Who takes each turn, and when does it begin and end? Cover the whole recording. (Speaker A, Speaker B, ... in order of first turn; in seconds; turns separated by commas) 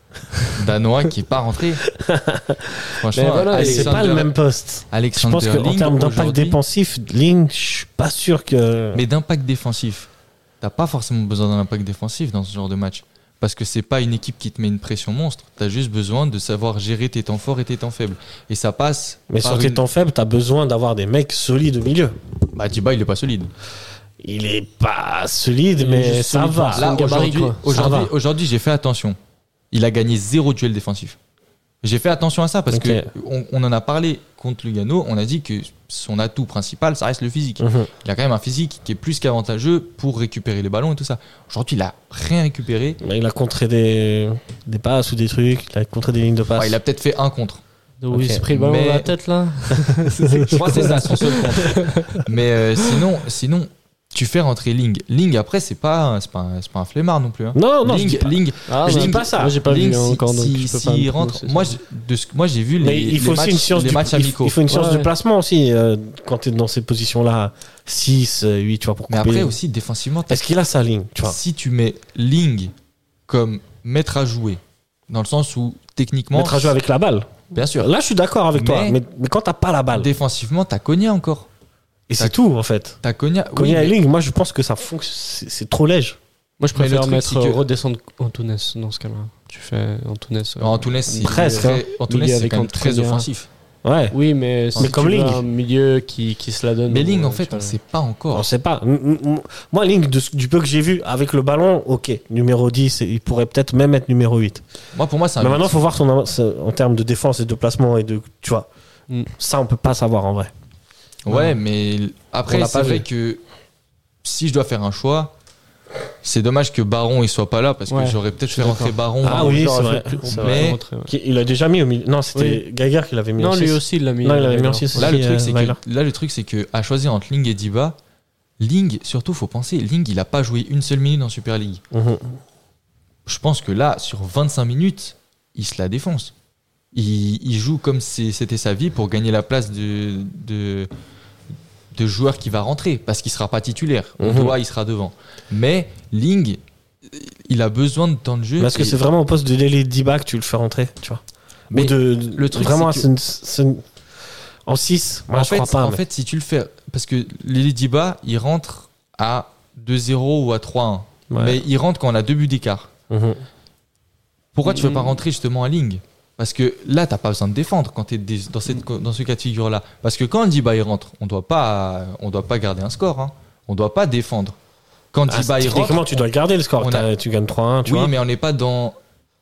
Speaker A: 0.5-1.9, Speaker B: 1.9-2.9, Speaker A: 3.0-4.3, Speaker C: 3.1-4.1, Speaker B: 3.5-9.1, Speaker A: 4.9-6.6, Speaker A: 8.9-10.1, Speaker A: 10.6-19.8, Speaker B: 19.3-22.1, Speaker A: 22.5-23.5, Speaker B: 24.2-26.9, Speaker C: 25.8-28.0, Speaker A: 26.7-29.2, Speaker B: 27.6-28.1, Speaker A: 29.7-31.2, Speaker A: 31.8-43.0, Speaker B: 32.7-33.1, Speaker B: 37.6-37.9, Speaker B: 43.0-46.8, Speaker A: 46.6-47.6, Speaker C: 48.0-52.2, Speaker B: 48.1-48.4, Speaker A: 48.5-49.1, Speaker A: 50.4-64.6, Speaker B: 57.5-59.6, Speaker C: 58.7-61.8, Speaker B: 62.8-69.6, Speaker C: 64.7-65.1, Speaker A: 69.1-70.4, Speaker B: 70.3-71.4, Speaker A: 71.2-72.7, Speaker A: 73.3-76.7, Speaker B: 76.3-80.1, Speaker A: 77.5-77.9, Speaker A: 78.5-79.0, Speaker A: 79.9-81.5, Speaker B: 82.1-83.0, Speaker A: 83.0-84.0, Speaker B: 83.5-86.2, Speaker C: 86.6-93.3, Speaker A: 86.8-87.6, Speaker A: 90.6-93.5, Speaker B: 91.2-91.8, Speaker B: 93.8-94.1, Speaker C: 94.1-97.8, Speaker B: 94.8-95.4, Speaker A: 96.9-98.5, Speaker B: 98.3-104.6, Speaker A: 105.0-105.8, Speaker B: 105.4-108.7, Speaker B: 109.4-110.5, Speaker A: 111.2-113.4, Speaker B: 112.5-113.1, Speaker A: 114.2-115.3, Speaker A: 116.2-119.6, Speaker C: 117.9-121.1, Speaker B: 119.2-125.8, Speaker A: 120.3-120.8, Speaker C: 122.3-122.6, Speaker C: 123.4-125.1, Speaker A: 125.0-128.0, Speaker A: 128.6-131.8, Speaker B: 131.9-132.4, Speaker A: 133.3-136.3, Speaker A: 136.9-140.9, Speaker A: 141.9-149.0, Speaker B: 144.2-144.6, Speaker B: 148.6-153.8, Speaker A: 151.7-153.1, Speaker B: 154.7-156.0, Speaker A: 155.3-162.9, Speaker B: 161.3-161.6, Speaker B: 163.1-163.4, Speaker A: 164.5-174.6, Speaker C: 164.7-165.1, Speaker A: 175.1-176.1, Speaker B: 175.3-178.1, Speaker A: 176.8-177.1, Speaker A: 177.9-179.0